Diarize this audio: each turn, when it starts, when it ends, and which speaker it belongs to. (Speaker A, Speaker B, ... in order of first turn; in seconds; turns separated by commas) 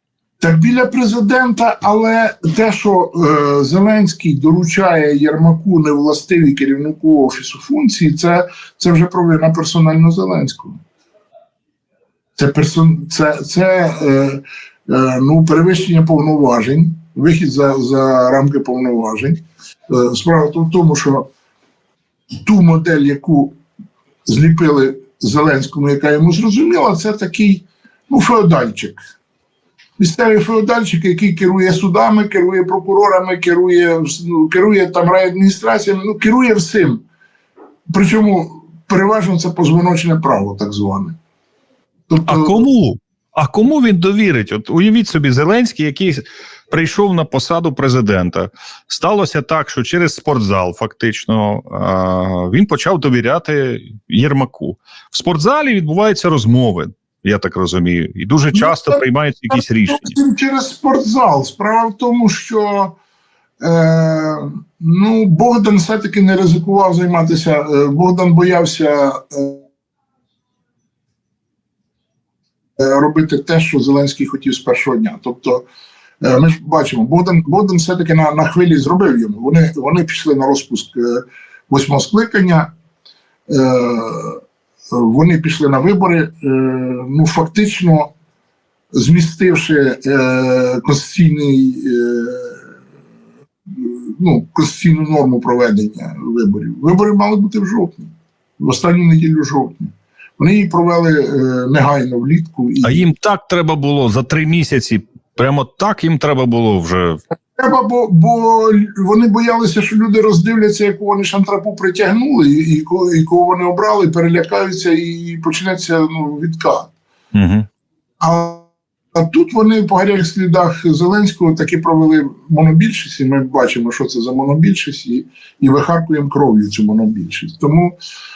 Speaker A: 0.4-10.8, Speaker A: 12.4-21.3, Speaker A: 22.4-23.6, Speaker A: 24.3-29.0, Speaker A: 30.0-37.0, Speaker A: 37.9-41.2, Speaker A: 42.1-42.7, Speaker B: 42.3-60.2, Speaker A: 58.5-63.0, Speaker A: 63.6-69.6, Speaker A: 72.8-75.7, Speaker A: 76.2-82.7, Speaker A: 83.5-84.4, Speaker A: 84.9-88.1, Speaker A: 88.9-92.6, Speaker A: 93.7-103.1, Speaker B: 102.8-107.2, Speaker A: 107.6-116.9, Speaker B: 117.3-117.7, Speaker A: 118.2-128.0